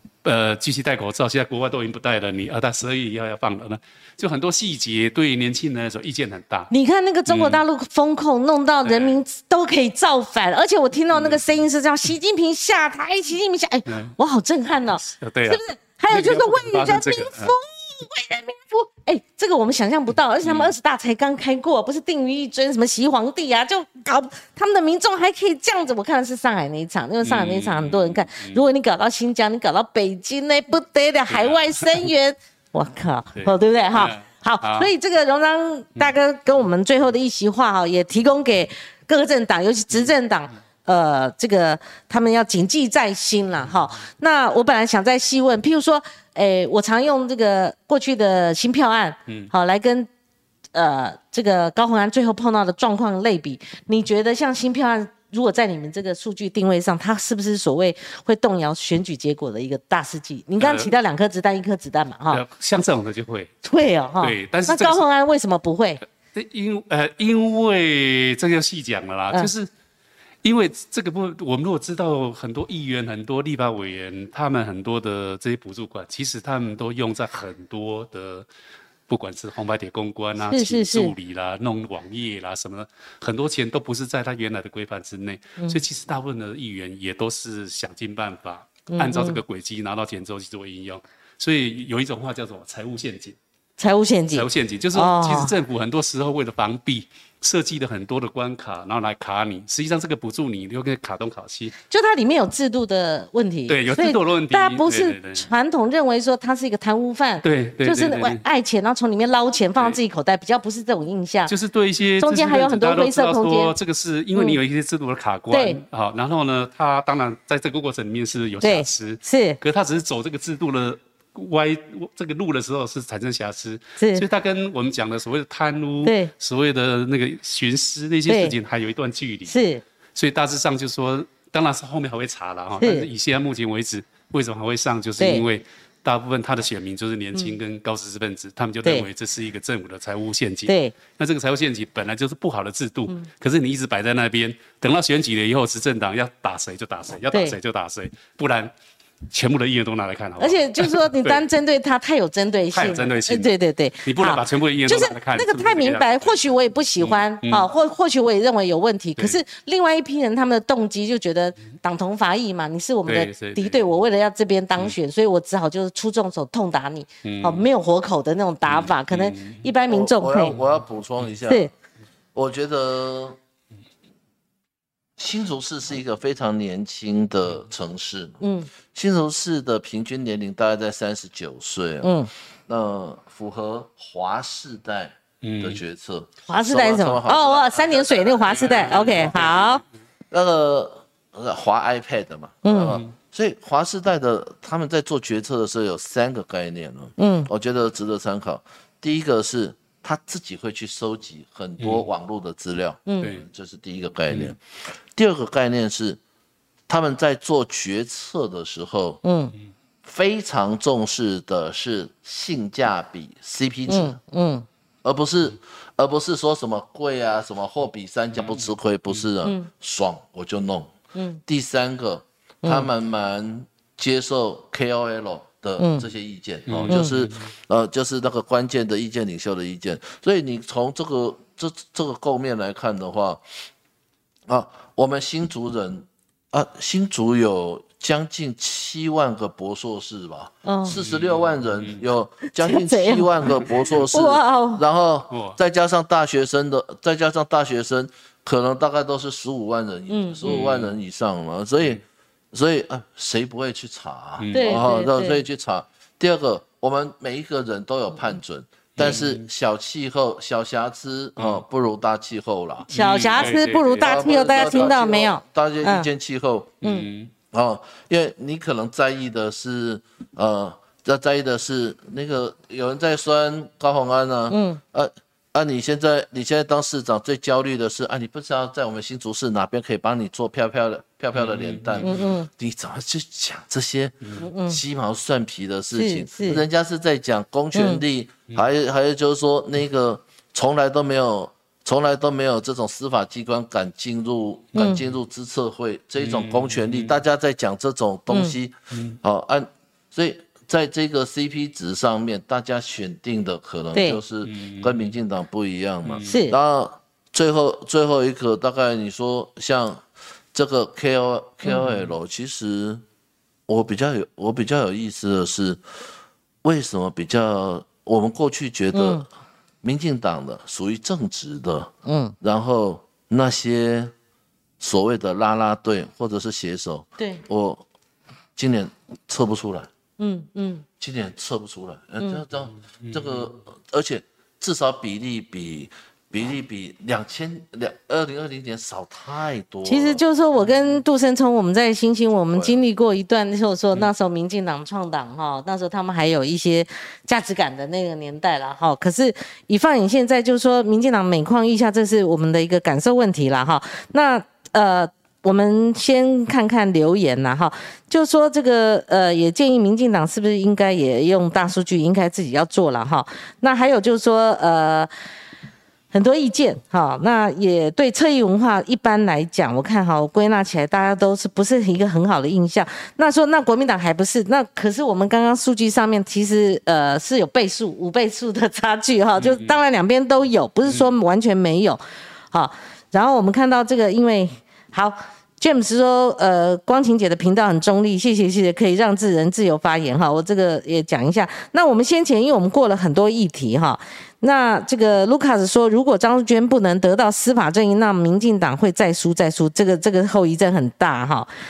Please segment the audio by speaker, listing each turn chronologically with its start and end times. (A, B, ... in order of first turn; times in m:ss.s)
0:00.2-0:06.7 A
0:06.7-0:50.1 B
0:07.3-0:07.6 A
0:08.8-0:09.1 A
0:11.1-0:11.4 A
0:13.9-0:14.1 A
0:15.0-0:17.5 A
0:20.4-0:20.7 A
0:27.2-0:28.6 A
0:31.3-0:31.8 A
0:33.4-0:34.9 A
0:50.7-1:02.4 B
1:00.6-1:00.9 A
1:02.3-1:03.5 A
1:03.6-1:06.0 B
1:04.2-1:05.0 A
1:06.3-1:09.7 A
1:10.4-1:18.5 A
1:19.1-1:33.4 A
1:20.5-1:21.1 B
1:28.9-1:29.4 B
1:33.8-1:35.5 B
1:34.3-1:41.7 A
1:41.9-1:51.5 B
1:43.7-1:45.5 A
1:47.4-1:48.4 A
1:51.5-2:09.6 A
1:52.2-1:53.7 B
1:55.5-1:55.8 B
1:58.6-1:59.6 B
2:04.0-2:04.2 B
2:06.0-2:06.3 B
2:08.3-2:08.5 B
2:09.5-2:09.8 B
2:10.1-2:28.7 A
2:12.8-2:13.1 B
2:15.2-2:15.4 B
2:20.7-2:20.9 B
2:29.3-2:31.4 A
2:30.4-2:50.5 B
2:32.7-2:33.5 A
2:34.0-2:36.4 A
2:37.0-2:37.7 A
2:43.1-2:43.8 A
2:47.2-2:47.7 A
2:48.7-2:49.6 A
2:49.9-2:51.7 C
2:51.4-2:51.7 B
2:52.3-2:53.4 C
2:55.2-2:58.4 C
2:58.4-2:58.7 B
2:58.9-3:02.1 C
3:02.0-3:02.3 B
3:02.7-3:09.5 C
3:05.4-3:05.8 A
3:06.5-3:09.8 B
3:08.6-3:09.7 A
3:10.3-3:26.2 C
3:12.6-3:13.0 B
3:12.8-3:13.1 A
3:17.2-3:17.5 B
3:26.9-3:29.2 C
3:29.2-3:29.5 B
3:30.0-3:34.2 C
3:33.9-3:34.6 B
3:35.0-3:40.9 C
3:39.4-3:39.7 B
3:41.1-3:41.4 B
3:41.4-3:53.4 C
3:42.6-3:42.9 B
3:45.8-3:46.0 B
3:46.7-3:47.4 A
3:46.9-3:47.2 B
3:54.5-4:26.8 C
4:00.6-4:01.0 B
4:00.9-4:02.0 A
4:02.5-4:04.8 B
4:05.3-4:05.6 A
4:10.1-4:10.4 B
4:10.4-4:10.9 A
4:14.4-4:14.8 A
4:14.5-4:15.4 B
4:19.0-4:19.4 A
4:22.9-4:24.9 A
4:22.9-4:26.1 B
4:26.8-4:27.3 A
4:26.8-4:27.1 B
4:27.5-5:10.0 C
4:34.5-4:34.8 B
4:41.3-4:42.2 A
4:42.0-4:42.5 B
4:44.4-4:44.8 B
4:45.9-4:46.6 B
4:47.7-4:48.0 B
4:54.7-4:55.0 B
4:56.2-4:57.2 A
4:58.3-4:58.5 B
4:58.9-4:59.2 A
5:03.9-5:04.2 B
5:04.4-5:05.1 A
5:06.0-5:06.4 A
5:06.2-5:06.6 B
5:10.5-5:13.0 C
5:13.7-5:15.8 C
5:16.6-5:19.2 C
5:18.9-5:19.2 B
5:19.8-5:24.1 C
5:22.0-5:22.3 B
5:24.8-5:27.8 C
5:28.6-5:29.9 C
5:30.2-5:30.8 B
5:31.0-5:40.2 C
5:39.8-6:05.1 B
5:42.5-5:42.8 C
6:06.1-6:22.0 B
6:19.4-6:19.8 A
6:22.5-6:41.5 B